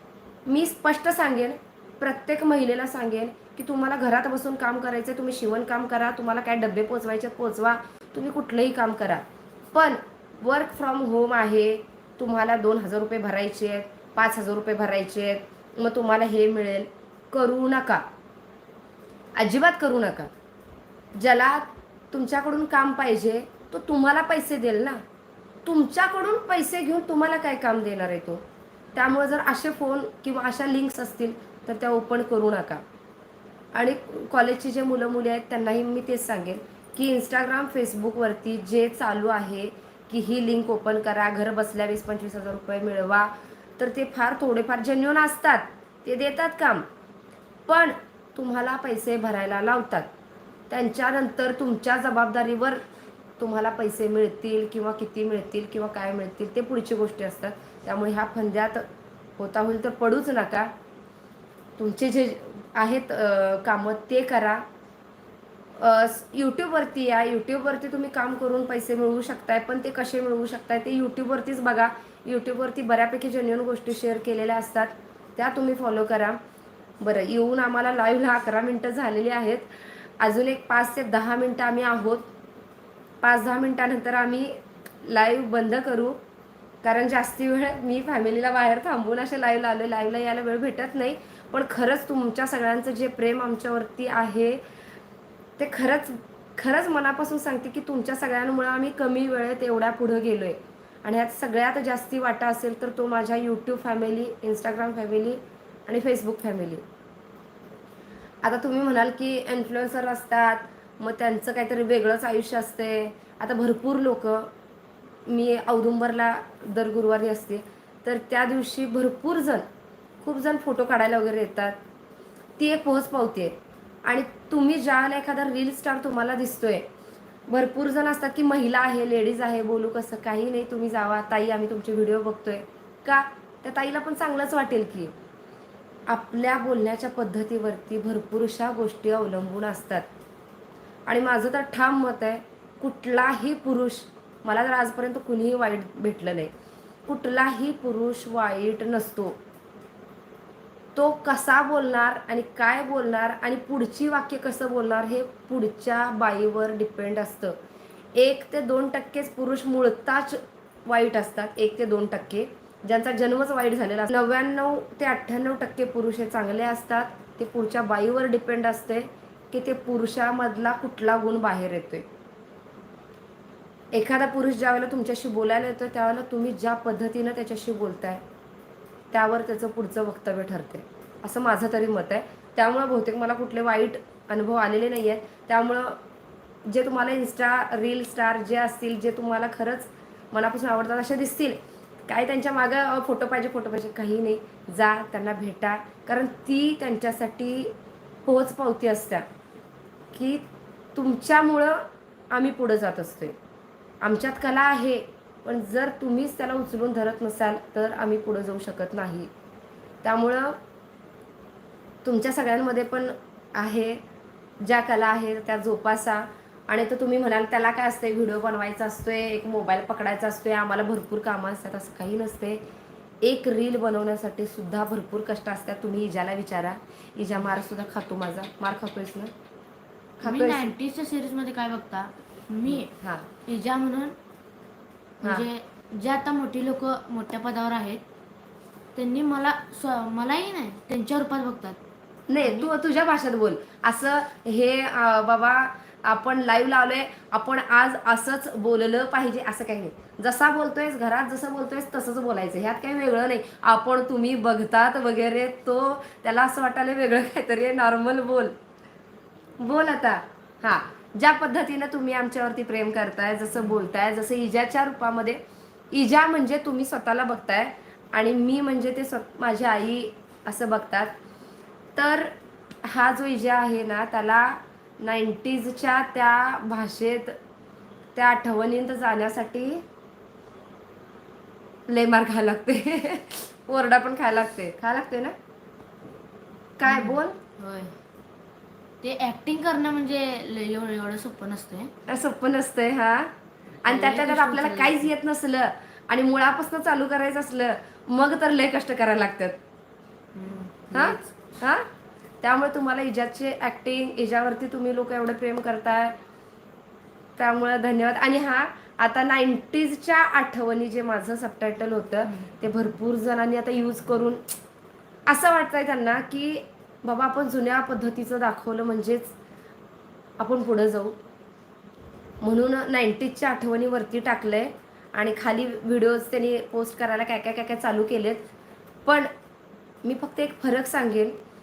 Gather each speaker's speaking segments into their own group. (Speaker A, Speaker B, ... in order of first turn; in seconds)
Speaker A: 0.5-18.0, 19.4-20.3, 21.1-25.0, 25.6-28.4, 28.9-32.8, 33.7-46.9, 47.7-50.1, 50.7-52.8, 53.4-58.9, 59.4-60.7, 61.8-64.6, 65.8-76.4, 77.0-79.7, 80.2-82.3, 83.2-86.2, 86.8-94.6, 95.6-106.8, 108.4-114.5, 115.3-119.6, 120.2-121.8, 122.6-123.5, 124.0-126.8, 127.5-135.1, 136.1-140.1, 141.1-146.5, 147.1-149.4, 150.9-157.6, 158.1-172.1, 173.9-178.2, 179.1-186.0, 186.7-197.7, 198.2-199.2, 200.1-200.4, 200.9-203.3, 204.0-209.3, 210.0-210.6, 212.0-214.0, 214.6-222.6, 223.2-229.3, 230.2-230.7, 232.7-233.3, 242.3-258.5, 259.6-265.4, 265.9-271.1, 271.9-272.3, 272.8-277.4, 278.1-279.8, 281.9-285.3, 286.8-287.4, 292.1-293.3, 293.8-299.6, 300.9-301.8, 302.4-306.1, 307.4-314.4, 315.3-319.3, 320.4-321.2, 322.4-328.5, 329.0-329.3, 330.0-331.4
Speaker B: 230.2-232.9, 233.4-234.2, 235.2-238.0, 238.9-241.8, 242.4-242.7, 286.9-287.9, 289.0-291.9, 293.9-295.1, 300.3-301.4, 312.2-312.5